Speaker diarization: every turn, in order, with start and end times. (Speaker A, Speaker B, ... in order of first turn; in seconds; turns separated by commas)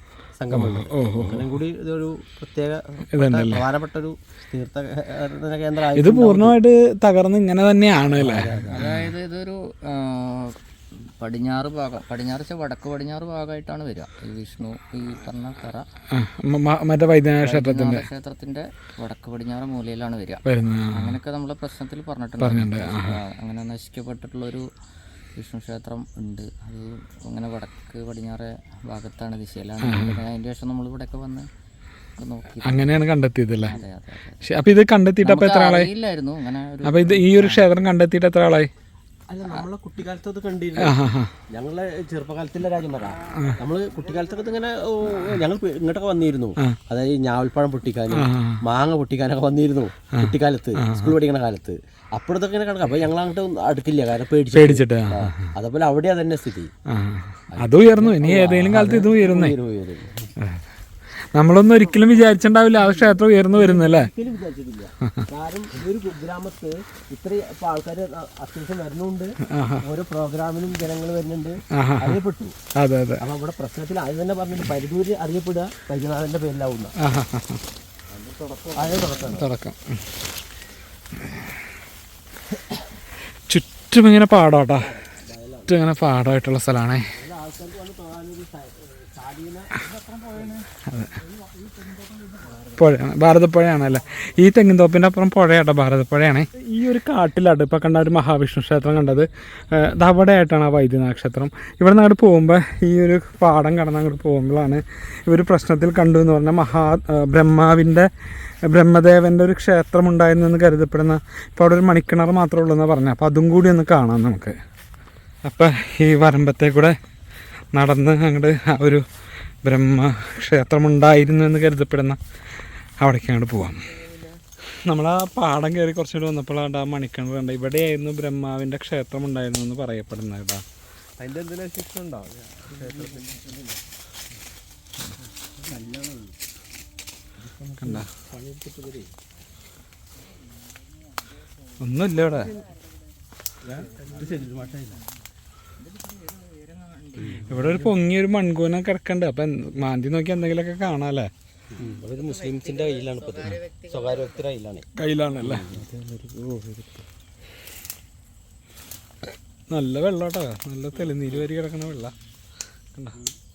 Speaker A: 0.4-6.6, Speaker B: 0.5-1.5, Speaker B: 3.1-3.6, Speaker B: 5.9-9.0, Speaker A: 8.2-9.0, Speaker C: 8.7-10.6, Speaker C: 11.2-15.8, Speaker B: 16.1-18.1, Speaker C: 17.4-24.6, Speaker B: 20.4-21.2, Speaker B: 22.4-23.2, Speaker C: 25.4-31.5, Speaker B: 29.8-30.2, Speaker C: 32.2-32.9, Speaker B: 32.6-33.7, Speaker C: 33.6-34.4, Speaker B: 34.4-35.9, Speaker C: 35.2-37.7, Speaker B: 36.8-38.7, Speaker A: 39.3-41.0, Speaker B: 40.8-41.3, Speaker A: 41.5-56.7, Speaker B: 43.3-43.6, Speaker B: 48.1-48.6, Speaker B: 50.1-51.2, Speaker B: 54.5-55.5, Speaker B: 56.9-59.6, Speaker A: 57.5-60.1, Speaker B: 60.4-60.6, Speaker B: 61.3-64.1, Speaker A: 61.9-62.1, Speaker A: 63.0-72.5, Speaker B: 69.5-69.8, Speaker B: 71.7-72.2, Speaker B: 72.8-73.2, Speaker A: 73.2-76.9, Speaker B: 77.0-77.6, Speaker A: 78.1-79.5, Speaker B: 79.2-80.0, Speaker B: 83.5-84.9, Speaker A: 84.8-85.8, Speaker B: 85.7-87.0, Speaker A: 87.1-90.6, Speaker B: 90.9-91.2, Speaker A: 91.5-92.6, Speaker B: 92.7-114.6, Speaker B: 115.4-117.0, Speaker B: 117.7-119.0, Speaker B: 119.6-124.0, Speaker B: 124.7-130.6, Speaker A: 131.2-133.7, Speaker A: 135.6-136.3, Speaker A: 137.4-139.1, Speaker B: 137.8-138.1, Speaker B: 141.8-142.5, Speaker A: 143.6-145.0, Speaker C: 145.8-147.4, Speaker A: 147.2-147.9, Speaker B: 147.4-151.3, Speaker A: 151.8-154.9, Speaker C: 152.0-154.4, Speaker B: 154.9-155.8, Speaker A: 155.4-155.9, Speaker B: 159.7-162.1